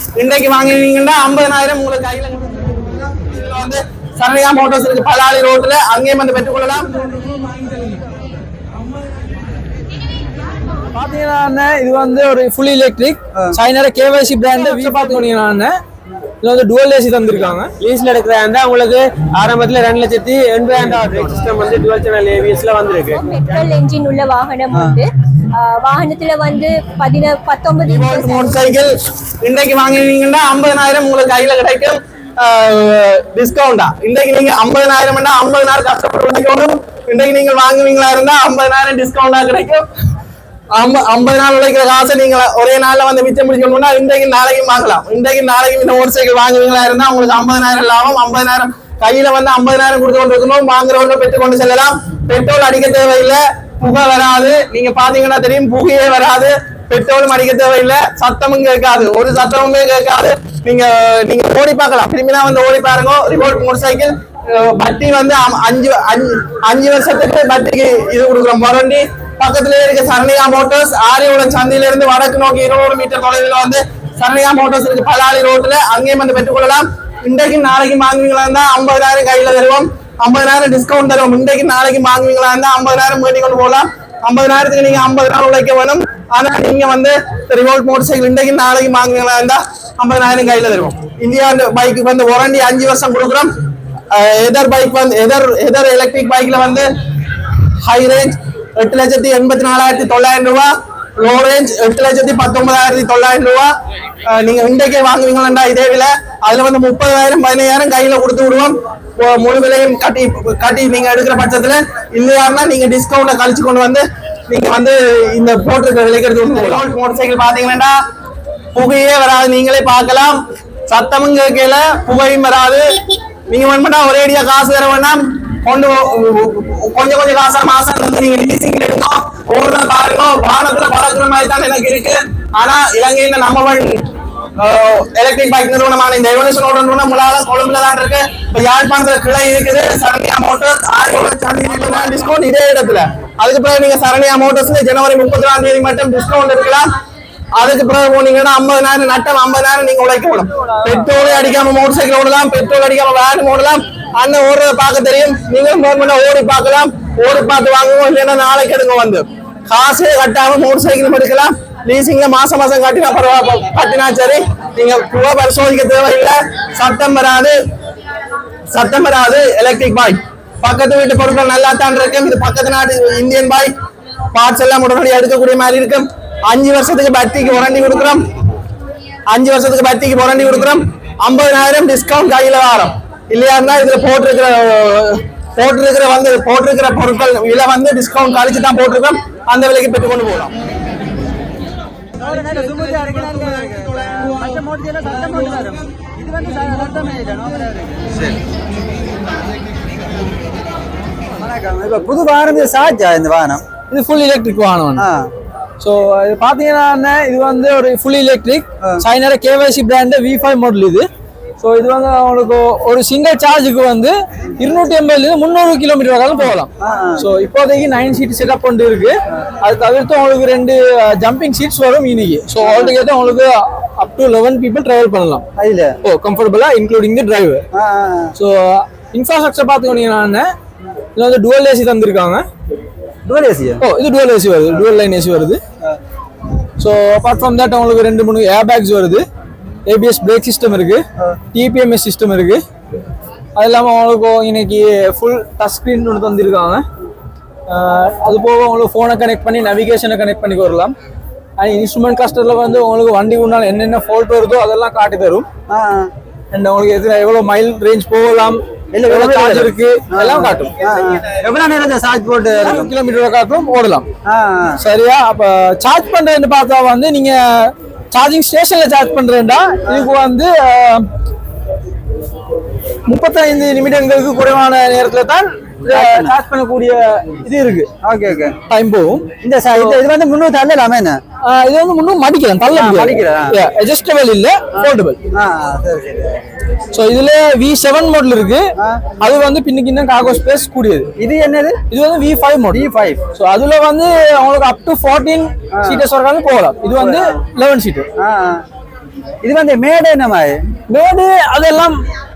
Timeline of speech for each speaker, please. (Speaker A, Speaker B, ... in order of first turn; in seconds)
Speaker A: 0.1-6.9, 27.9-28.9, 29.4-39.8, 40.7-93.5, 94.1-96.9, 97.8-103.7, 104.2-117.9, 118.7-122.8, 123.5-134.0, 134.6-146.9, 147.5-167.5, 168.7-173.7, 174.3-178.2, 179.3-190.5
Speaker B: 10.9-15.7, 16.4-17.7, 150.9-151.2, 203.9-205.0, 205.8-211.1, 211.6-225.4, 226.0-227.6, 228.4-230.5, 231.2-232.4, 233.8-235.6, 236.8-239.2, 239.8-241.0, 241.5-242.6, 243.6-246.8, 247.7-250.9, 251.6-255.4, 256.5-260.7, 262.6-264.1, 264.8-271.0, 273.1-277.9, 278.7-279.9, 281.4-285.2, 286.9-288.6, 289.2-291.1, 291.9-298.0, 300.9-302.0
Speaker C: 14.6-15.3, 23.1-28.6
Speaker D: 17.8-23.2
Speaker E: 192.2-198.4, 201.4-203.6, 204.9-205.3, 216.8-217.2, 222.6-222.9, 225.6-226.0, 227.7-228.3, 233.2-233.8, 255.7-256.1, 258.9-262.9, 264.2-264.8, 275.9-276.3, 278.0-278.6, 279.4-281.1, 282.7-283.5, 284.7-286.5, 291.2-291.8, 292.7-293.2, 295.8-296.0, 296.9-297.4, 298.2-298.6, 299.4-300.6